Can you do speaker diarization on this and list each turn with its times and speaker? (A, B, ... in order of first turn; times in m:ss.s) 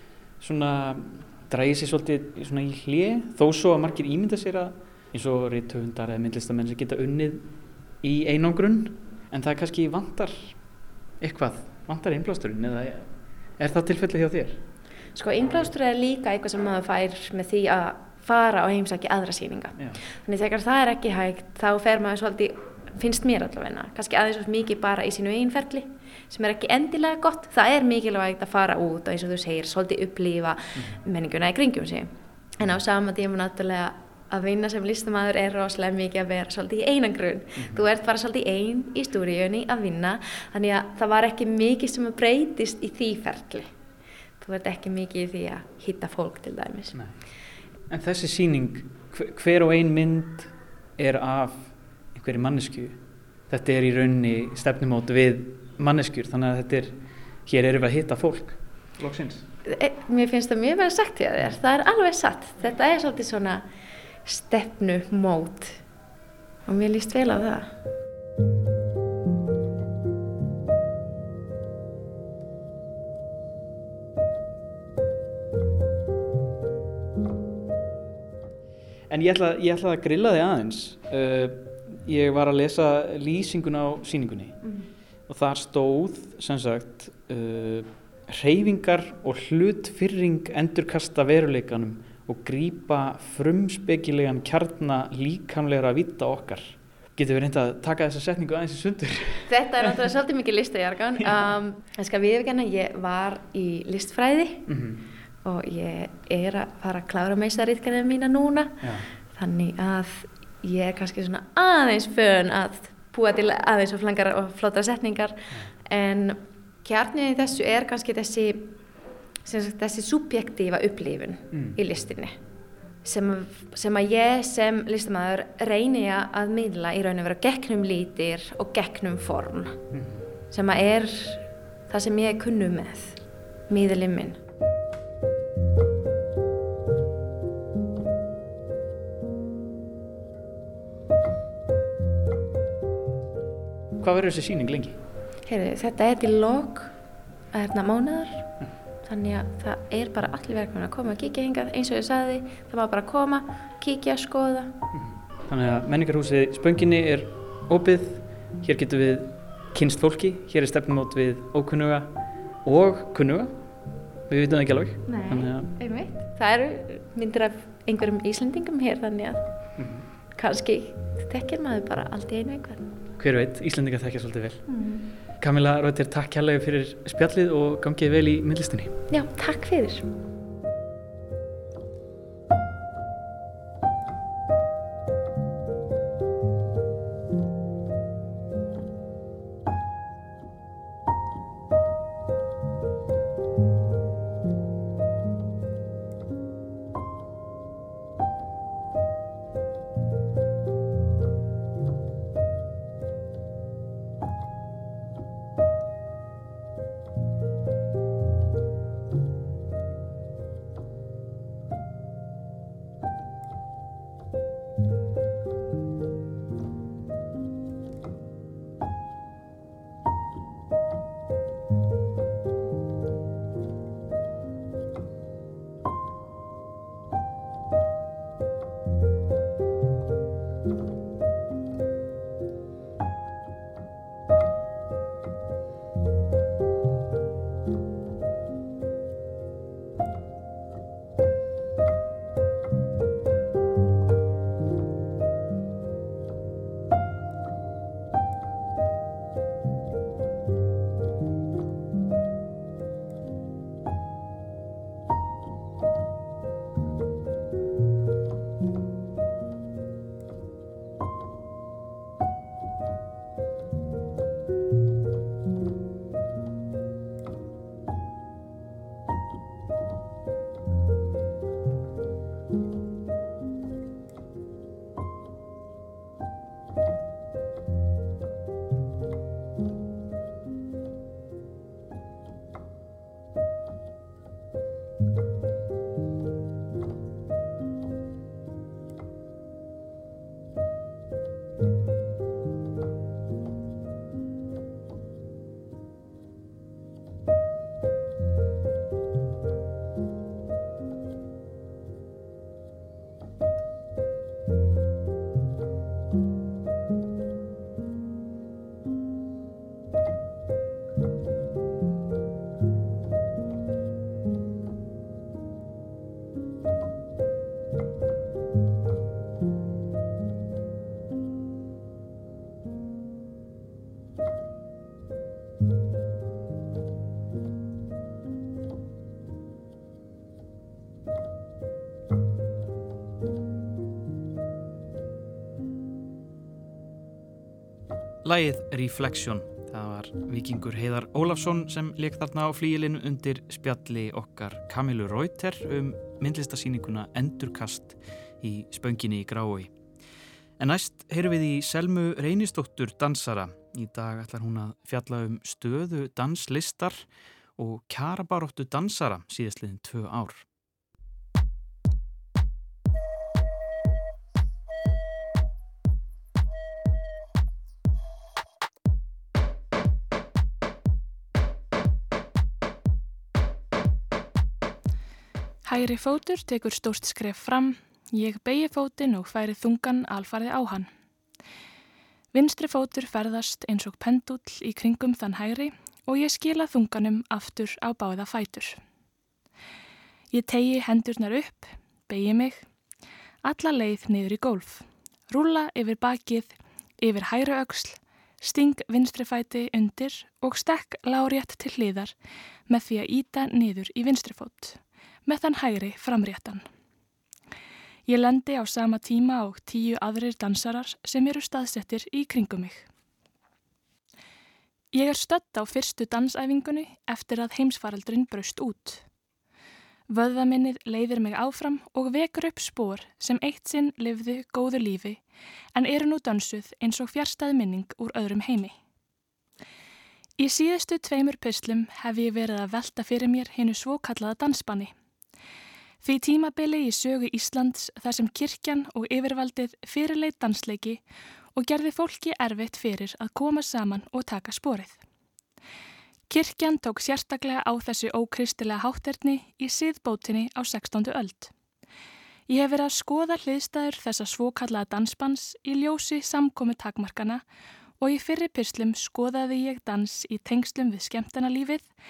0:00.4-0:10.6 A
0:11.2-0:14.6 A
0:15.2-0:43.7 B
0:19.8-0:20.0 A
0:37.6-0:37.9 A
0:44.4-0:47.0 B
0:46.9-0:47.2 A
0:47.9-0:59.5 A
0:59.6-1:03.6 B
1:04.2-1:05.8 B
1:06.7-1:07.7 B
1:19.1-1:24.7 A
1:25.3-1:40.0 A
1:39.5-1:44.7 B
1:44.7-1:45.1 A
1:45.4-1:58.8 B
1:48.8-1:49.1 A
1:59.4-2:02.4 B
2:03.0-2:09.8 B
2:09.9-2:10.2 A
2:10.5-2:14.4 B
2:24.0-2:25.0 A
2:25.4-2:27.0 B
2:27.5-2:28.5 B
2:29.0-2:34.8 B
2:34.9-2:43.6 A
2:44.3-2:45.7 A
2:45.1-2:49.5 B
2:49.8-2:50.1 A
2:50.4-2:52.9 B
2:53.2-2:54.7 A
2:54.7-2:55.1 B
2:55.4-2:59.0 A
2:59.1-3:00.1 B
5:38.2-5:49.7 A
5:50.6-6:00.4 A
6:15.6-6:20.9 C
6:22.3-6:28.8 C
6:30.3-6:32.6 C
6:33.4-6:42.1 C
6:42.7-6:46.6 C
6:48.1-6:52.9 C
6:54.9-6:59.0 C
7:00.1-7:05.2 C
7:05.8-7:08.8 C
7:10.4-7:14.9 C
7:16.0-7:21.0 C
7:21.6-7:25.0 C
7:26.3-7:31.5 C
7:32.5-7:37.4 C
7:38.0-7:41.9 C